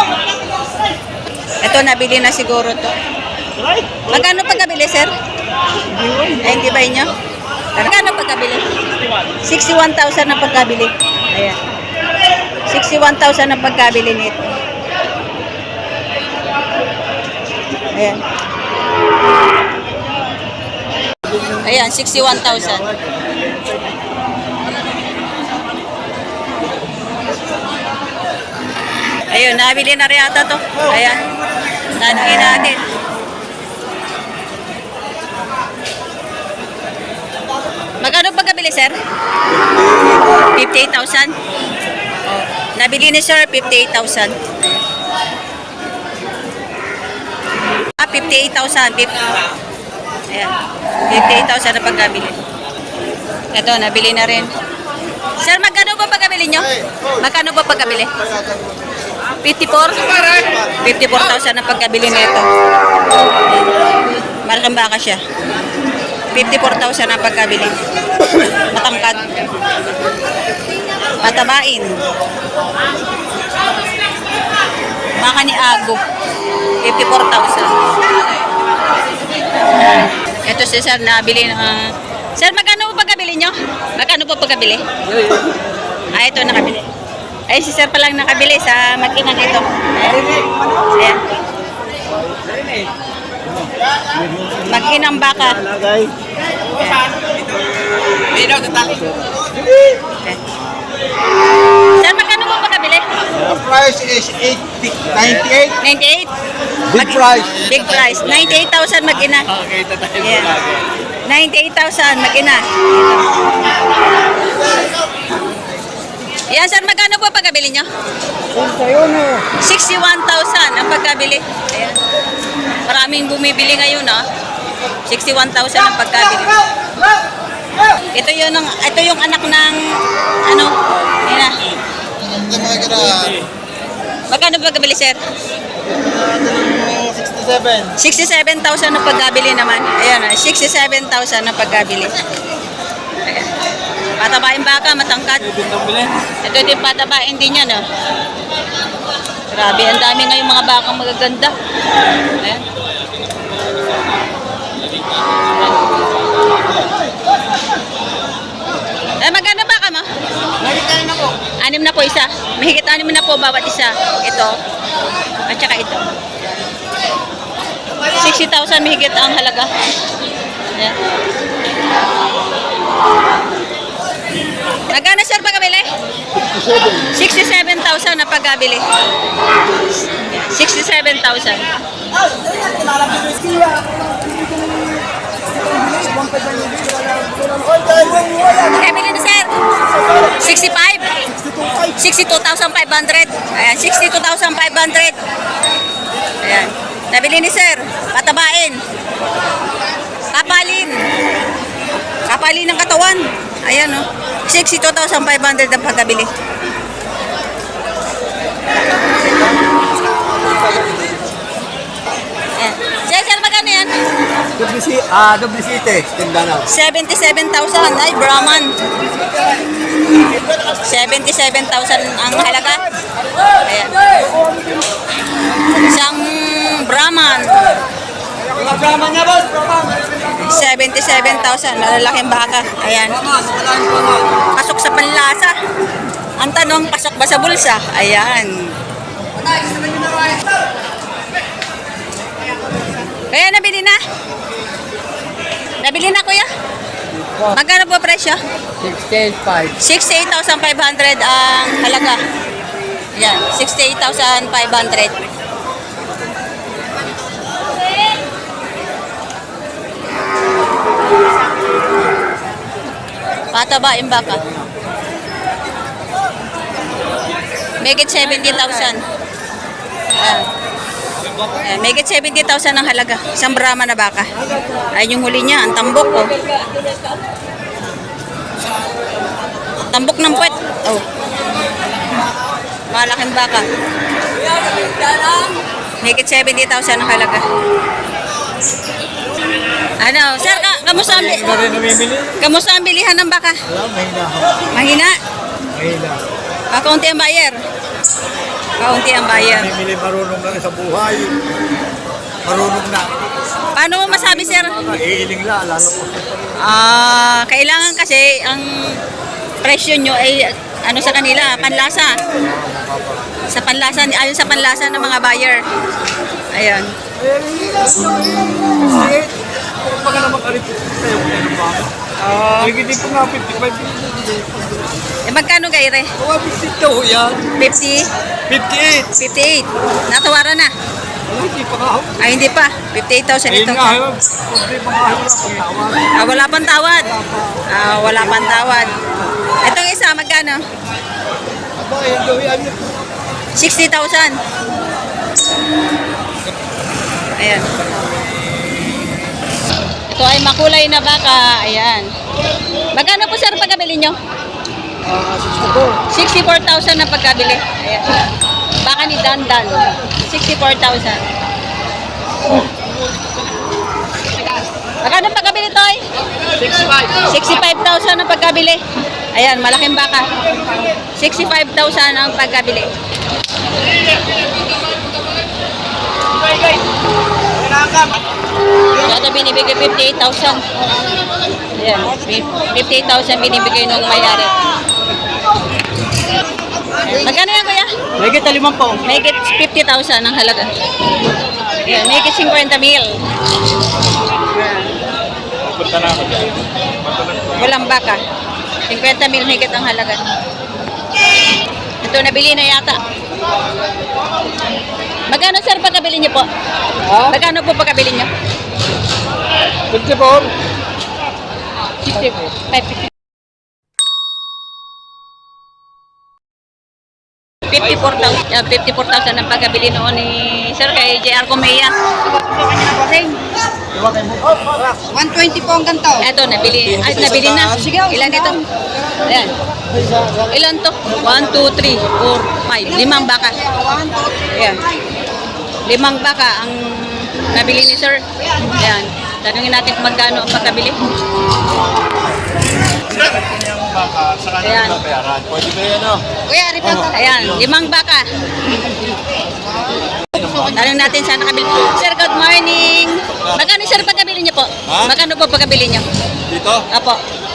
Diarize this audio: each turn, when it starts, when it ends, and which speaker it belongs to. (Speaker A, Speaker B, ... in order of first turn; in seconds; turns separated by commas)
Speaker A: 1.6-2.9, Speaker A: 4.1-5.1, Speaker B: 5.9-6.4, Speaker A: 6.4-7.1, Speaker A: 7.8-8.6, Speaker A: 9.4-11.6, Speaker A: 12.7-14.4, Speaker A: 17.9-18.2, Speaker A: 21.6-22.9, Speaker B: 22.7-23.4, Speaker A: 29.3-31.2, Speaker A: 32.0-32.8, Speaker A: 38.0-38.9, Speaker A: 40.6-41.3, Speaker A: 42.8-44.5, Speaker A: 48.0-49.3, Speaker A: 51.1-52.4, Speaker A: 53.5-54.5, Speaker A: 55.4-58.2, Speaker A: 59.4-62.5, Speaker A: 64.4-65.2, Speaker A: 66.3-67.8, Speaker A: 68.7-69.5, Speaker A: 71.2-72.0, Speaker A: 75.2-76.0, Speaker A: 76.8-77.7, Speaker A: 79.8-84.8, Speaker A: 86.1-86.8, Speaker A: 87.5-90.3, Speaker A: 90.9-91.2, Speaker B: 94.0-96.1, Speaker A: 94.7-95.6, Speaker A: 96.7-97.1, Speaker C: 98.4-98.8, Speaker B: 98.6-99.0, Speaker A: 102.0-103.1, Speaker B: 103.4-105.8, Speaker A: 105.8-106.3, Speaker B: 106.9-108.2, Speaker A: 106.9-109.5, Speaker B: 109.5-110.4, Speaker A: 110.2-110.7, Speaker A: 111.2-113.3, Speaker A: 116.5-117.9, Speaker B: 118.5-119.5, Speaker A: 119.5-122.0, Speaker A: 122.9-124.2, Speaker A: 125.1-126.6, Speaker A: 128.1-129.8, Speaker A: 130.5-130.7, Speaker A: 131.2-131.6, Speaker B: 132.3-133.4, Speaker A: 134.3-135.2, Speaker B: 136.0-137.9, Speaker A: 138.0-142.2, Speaker A: 143.2-143.5, Speaker A: 144.2-145.5, Speaker B: 145.5-146.2, Speaker A: 146.4-147.8, Speaker A: 149.5-151.5, Speaker A: 159.2-160.1, Speaker C: 160.8-161.2, Speaker A: 161.6-164.5, Speaker A: 165.5-166.1, Speaker A: 168.0-169.7, Speaker A: 174.9-175.9, Speaker B: 176.5-177.1, Speaker A: 177.1-178.8, Speaker A: 180.3-181.7, Speaker B: 182.3-184.9, Speaker B: 185.8-188.7, Speaker A: 188.6-189.5, Speaker A: 190.3-191.2, Speaker B: 191.4-191.9, Speaker A: 191.9-195.2, Speaker A: 196.4-198.8, Speaker A: 200.3-201.0, Speaker A: 202.3-206.3, Speaker B: 210.8-211.1, Speaker A: 212.6-213.9, Speaker B: 214.6-216.7, Speaker A: 216.6-218.7, Speaker A: 220.7-222.9, Speaker A: 223.6-224.0, Speaker A: 225.7-227.7, Speaker B: 228.4-230.0, Speaker A: 230.3-233.2, Speaker B: 233.5-234.1, Speaker A: 234.6-235.6, Speaker A: 236.4-238.7, Speaker A: 243.3-244.0, Speaker A: 245.8-246.4, Speaker A: 247.4-248.4, Speaker B: 248.8-249.8, Speaker A: 249.8-252.2, Speaker A: 253.2-255.2, Speaker A: 263.5-264.4, Speaker A: 267.8-269.0, Speaker A: 270.2-270.4, Speaker A: 271.6-274.3, Speaker A: 274.9-276.4, Speaker A: 279.8-281.0, Speaker A: 282.9-283.7, Speaker A: 286.0-287.4, Speaker A: 290.0-291.7, Speaker B: 291.2-292.3, Speaker A: 292.4-293.6, Speaker B: 293.7-294.7, Speaker A: 294.7-295.1, Speaker B: 295.7-296.2, Speaker A: 296.7-297.6, Speaker A: 298.8-299.7, Speaker B: 299.4-301.4, Speaker B: 302.4-303.2, Speaker A: 303.8-304.9, Speaker B: 304.1-306.6, Speaker A: 306.6-309.0, Speaker A: 309.6-312.2, Speaker B: 312.3-313.2, Speaker A: 313.5-315.6, Speaker A: 316.5-316.9, Speaker B: 317.2-321.9, Speaker A: 322.2-322.7, Speaker B: 322.6-324.9, Speaker A: 325.3-326.1, Speaker B: 326.2-327.6, Speaker A: 327.6-328.0, Speaker B: 328.5-329.1, Speaker A: 329.1-330.7, Speaker B: 331.3-332.2, Speaker A: 332.2-334.0, Speaker B: 333.5-336.1, Speaker A: 336.1-337.1, Speaker B: 337.1-337.6, Speaker A: 337.7-339.0, Speaker A: 339.6-340.6, Speaker B: 341.9-342.9, Speaker A: 343.6-344.4, Speaker A: 347.4-347.9, Speaker A: 350.1-352.1, Speaker A: 352.9-354.2, Speaker B: 355.1-356.0, Speaker A: 356.1-358.2, Speaker A: 358.9-361.2, Speaker A: 365.0-366.0, Speaker A: 367.2-368.8, Speaker A: 369.3-370.3, Speaker A: 371.2-372.9, Speaker A: 378.9-380.6, Speaker A: 381.7-384.6, Speaker A: 387.1-387.9, Speaker B: 388.2-389.0, Speaker A: 389.0-390.7, Speaker A: 391.8-393.2, Speaker A: 394.5-394.9, Speaker C: 395.7-396.5, Speaker D: 395.9-396.5, Speaker A: 397.5-398.2, Speaker A: 398.9-400.2, Speaker A: 402.0-403.0, Speaker A: 405.3-406.4, Speaker A: 407.1-408.3, Speaker B: 409.9-410.5, Speaker A: 412.0-413.1, Speaker A: 417.7-421.9, Speaker A: 422.6-423.4, Speaker B: 423.9-425.0, Speaker D: 425.1-426.2, Speaker A: 426.2-428.6, Speaker C: 427.1-427.6, Speaker B: 427.6-427.9, Speaker D: 427.8-428.1, Speaker A: 429.3-429.5, Speaker B: 429.9-430.4, Speaker A: 430.5-433.6, Speaker D: 433.7-434.3, Speaker A: 434.4-434.9, Speaker A: 435.9-441.0, Speaker C: 443.1-447.1, Speaker A: 444.6-445.0, Speaker D: 446.5-447.1, Speaker A: 447.1-448.3, Speaker A: 450.7-456.0, Speaker C: 456.5-456.8, Speaker A: 456.9-457.2